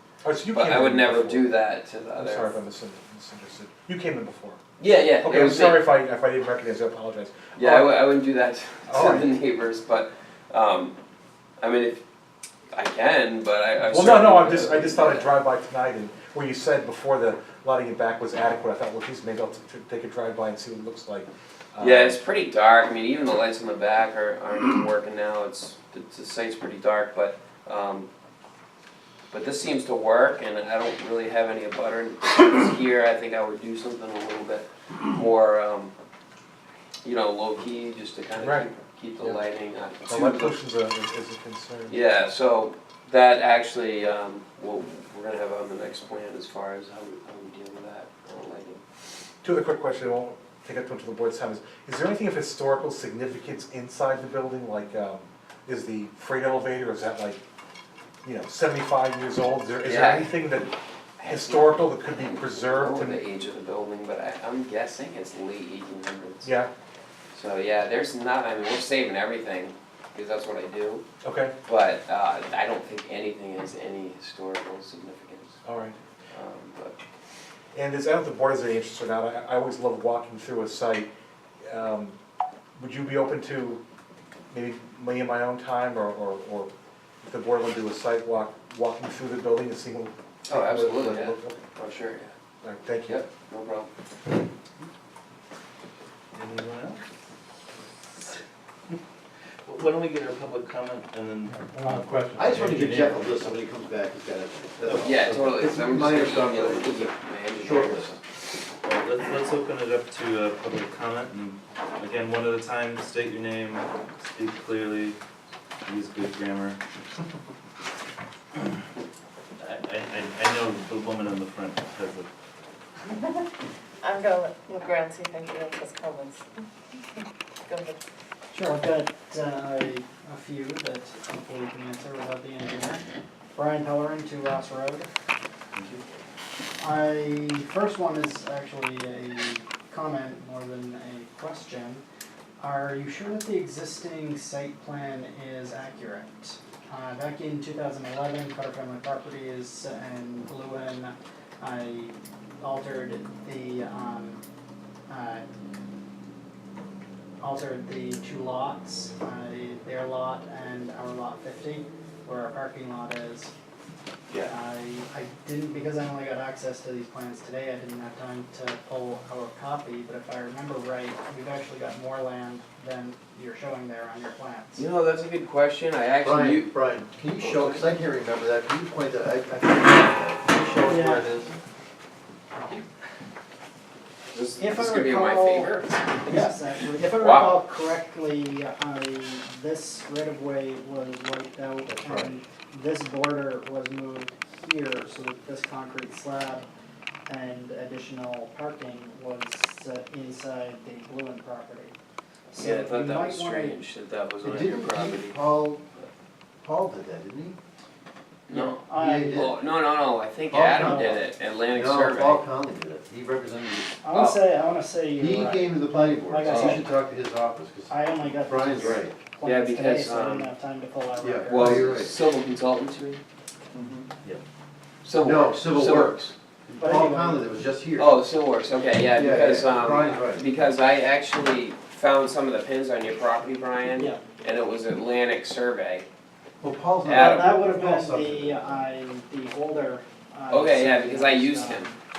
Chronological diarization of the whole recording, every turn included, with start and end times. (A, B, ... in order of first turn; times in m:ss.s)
0:00.2-0:01.5 A
0:00.5-0:02.5 B
0:02.1-0:04.6 A
0:04.8-0:05.8 B
0:05.2-0:07.9 A
0:07.6-0:11.0 B
0:08.9-0:09.3 A
0:11.6-0:12.0 B
0:12.7-0:15.3 B
0:13.9-0:22.2 A
0:21.8-0:28.1 B
0:29.3-0:35.9 B
0:37.0-0:40.6 B
0:38.4-0:39.4 A
0:40.1-0:42.0 A
0:41.9-0:48.8 B
0:49.4-0:57.4 A
0:58.2-1:00.7 A
0:59.8-1:00.4 B
1:01.2-1:06.5 B
1:01.2-1:03.2 A
1:06.4-1:06.7 A
1:07.3-1:11.0 B
1:11.2-1:11.5 A
1:11.6-1:15.6 B
1:15.6-1:16.0 A
1:16.3-1:17.0 B
1:17.7-1:21.1 A
1:21.6-1:22.2 A
1:22.8-1:23.8 A
1:24.5-1:26.7 A
1:27.2-1:31.6 A
1:30.5-1:32.3 B
1:32.6-1:33.2 A
1:33.1-1:33.9 B
1:36.3-1:37.0 C
1:39.6-1:43.4 C
1:42.4-1:48.1 D
1:44.9-1:45.6 C
1:44.9-1:48.2 B
1:48.8-1:55.2 C
1:55.8-1:56.8 C
1:59.6-2:02.3 C
2:04.1-2:06.2 E
2:08.5-2:13.0 F
2:13.5-2:15.1 F
2:15.8-2:16.0 C
2:16.8-2:22.0 F
2:22.6-2:34.4 F
2:35.1-2:35.4 F
2:37.4-2:43.5 F
2:44.3-2:44.6 B
2:44.4-2:54.8 F
2:54.7-2:56.7 B
2:56.2-3:01.5 D
2:57.4-2:57.9 B
3:00.8-3:01.3 F
3:04.3-3:06.5 B
3:04.6-3:16.7 F
3:07.0-3:07.6 B
3:11.9-3:12.3 D
3:17.3-3:21.9 F
3:22.5-3:23.8 F
3:22.5-3:25.4 B
3:24.4-3:25.8 D
3:26.6-3:27.6 D
3:28.5-3:32.4 B
3:28.5-3:29.5 F
3:29.0-3:29.5 D
3:30.5-3:31.1 D
3:30.6-3:31.2 F
3:31.7-3:34.0 D
3:34.0-3:36.9 F
3:34.1-3:34.4 B
3:35.2-3:39.1 D
3:36.4-3:36.8 B
3:37.9-3:41.8 F
3:38.7-3:40.5 B
3:41.2-3:42.1 D
3:41.5-3:43.2 B
3:45.0-3:46.3 B
3:45.2-3:48.2 D
3:46.8-3:47.5 F
3:48.0-3:56.1 B
3:49.1-3:50.6 D
3:53.8-3:54.2 F
3:56.6-3:58.9 D
3:57.0-3:57.5 B
3:57.0-4:02.0 F
4:00.5-4:01.9 B